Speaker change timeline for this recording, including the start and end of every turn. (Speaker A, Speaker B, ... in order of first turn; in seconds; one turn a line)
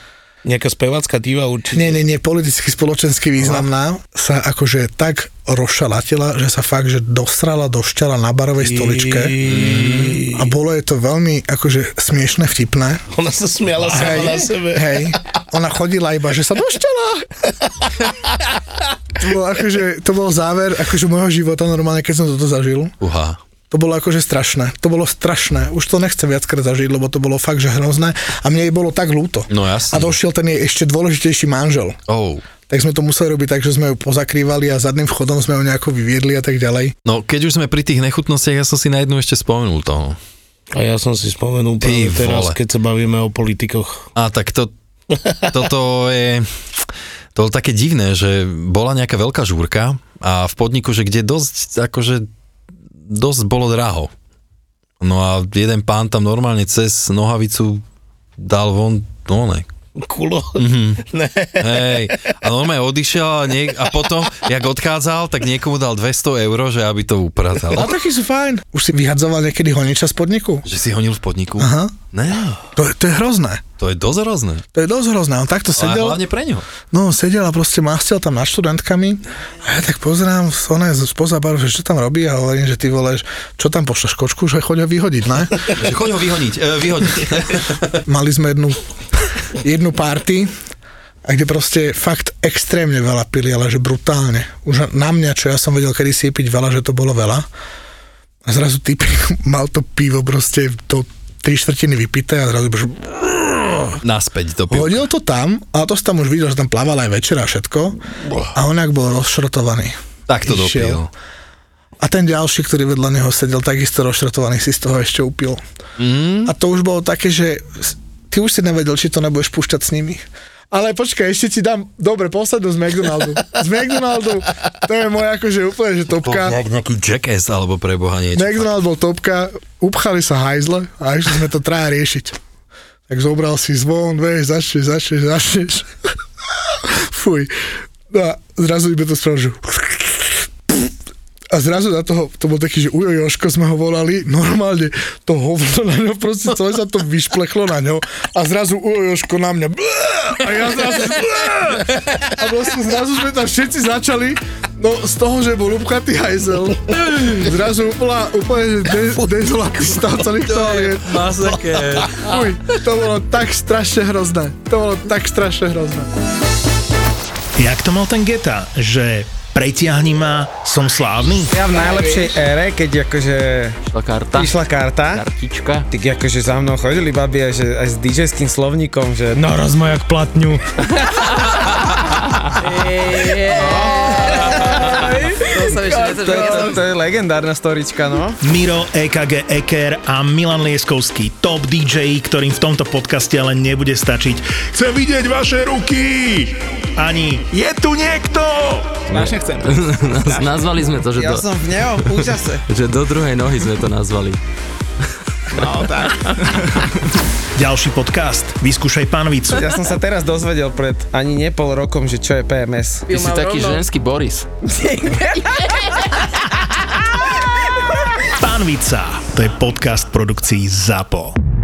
Speaker A: 0.5-2.0
Speaker B: 1.7-9.4
Speaker A: 8.6-10.5
Speaker C: 9.4-10.2
Speaker B: 10.3-13.1
Speaker A: 13.1-15.1
Speaker B: 13.9-17.4
Speaker B: 19.2-23.0
Speaker C: 23.0-23.4
Speaker B: 23.7-32.0
Speaker C: 29.5-30.1
Speaker C: 32.1-32.4
Speaker B: 32.7-37.0
Speaker C: 37.1-40.2
Speaker A: 40.7-44.1
Speaker C: 41.8-42.6
Speaker C: 44.2-44.7
Speaker A: 45.1-45.5
Speaker C: 45.5-52.3
Speaker C: 53.0-54.1
Speaker C: 55.0-57.8
Speaker C: 58.4-59.7
Speaker A: 60.0-62.3
Speaker C: 60.6-61.0
Speaker C: 61.6-67.9
Speaker B: 67.7-70.7
Speaker C: 70.7-72.6
Speaker B: 71.6-72.0
Speaker B: 72.7-73.6
Speaker C: 73.8-74.6
Speaker B: 74.7-76.2
Speaker C: 75.7-76.7
Speaker B: 76.9-85.8
Speaker C: 85.7-88.0
Speaker B: 88.0-88.8
Speaker B: 89.4-90.5
Speaker B: 91.2-97.5
Speaker B: 98.5-104.0
Speaker C: 104.0-105.1
Speaker B: 104.7-111.0
Speaker C: 110.3-111.1
Speaker B: 112.0-115.6
Speaker C: 116.0-116.5
Speaker B: 116.5-126.6
Speaker C: 126.2-128.7
Speaker B: 128.4-132.4
Speaker B: 133.1-135.9
Speaker B: 136.6-140.9
Speaker B: 141.5-166.1
Speaker C: 160.3-162.3
Speaker D: 167.6-171.6
Speaker E: 171.5-173.8
Speaker F: 173.9-174.6
Speaker E: 174.3-175.2
Speaker F: 175.1-175.9
Speaker E: 175.9-181.5
Speaker E: 182.6-188.4
Speaker F: 183.7-186.8
Speaker D: 188.4-200.4
Speaker F: 199.1-204.4
Speaker E: 201.1-202.6
Speaker E: 205.6-206.7
Speaker D: 205.6-205.9
Speaker F: 205.6-206.7
Speaker D: 207.6-209.8
Speaker E: 209.6-213.8
Speaker F: 213.1-214.5
Speaker E: 214.7-215.9
Speaker D: 218.3-221.4